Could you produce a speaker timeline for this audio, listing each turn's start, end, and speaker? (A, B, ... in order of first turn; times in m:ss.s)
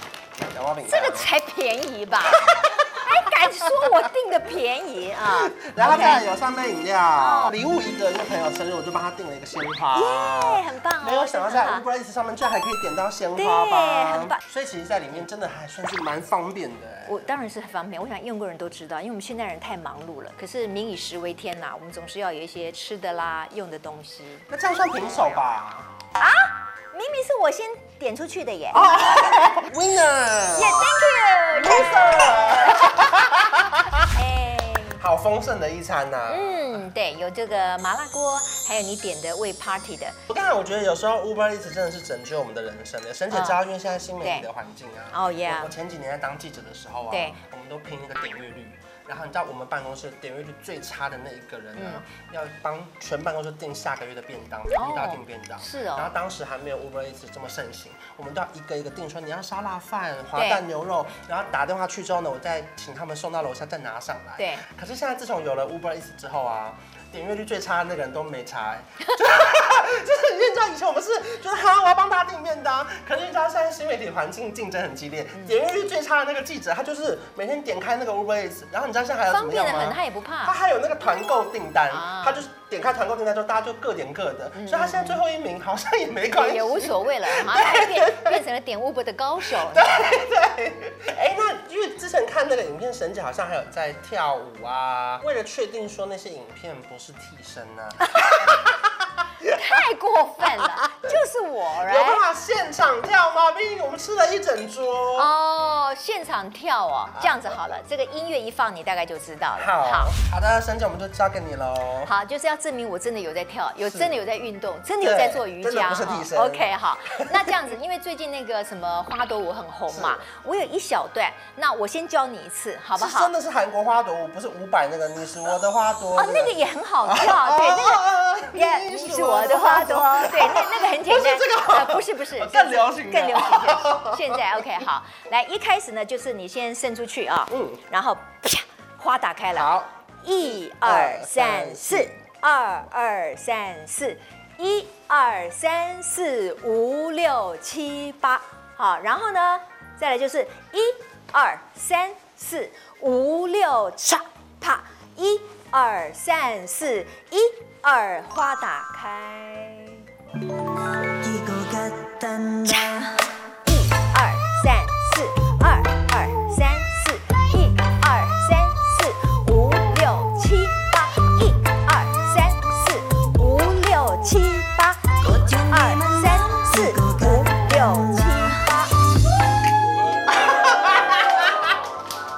0:00.5-0:01.3 A
0:00.8-0:06.2 B
0:02.3-0:04.0 A
0:05.2-0:17.3 A
0:07.2-0:07.6 B
0:09.9-0:11.8 B
0:13.4-0:14.4 B
0:17.0-0:24.5 B
0:24.5-0:25.9 A
0:26.2-0:29.0 B
0:28.7-0:31.0 A
0:30.5-0:33.2 B
0:31.6-0:34.0 A
0:34.1-0:35.0 B
0:35.0-0:36.8 A
0:36.3-0:40.2 B
0:40.3-1:28.4 A
0:43.3-0:43.6 B
0:44.2-0:44.5 B
0:45.1-0:45.7 B
0:47.1-0:47.4 B
0:51.8-0:52.0 B
0:54.7-0:56.1 B
1:00.3-1:00.6 B
1:04.4-1:04.6 B
1:19.3-1:20.6 B
1:21.9-1:22.4 B
1:24.6-1:25.2 B
1:26.3-1:30.0 B
1:29.4-1:39.8 A
1:39.5-1:42.2 B
1:40.6-1:41.2 A
1:41.8-1:45.3 A
1:45.1-1:50.1 B
1:47.1-1:47.5 A
1:49.5-1:52.1 A
1:52.0-2:03.3 B
1:53.8-1:54.2 A
1:55.0-1:57.5 A
1:59.9-2:00.2 A
2:03.0-2:14.8 A
2:06.1-2:40.1 B
2:17.5-2:17.8 A
2:19.6-2:19.9 A
2:20.5-2:22.1 A
2:41.2-2:42.8 C
2:42.6-2:59.0 B
2:56.5-2:57.1 C
3:00.2-3:01.7 A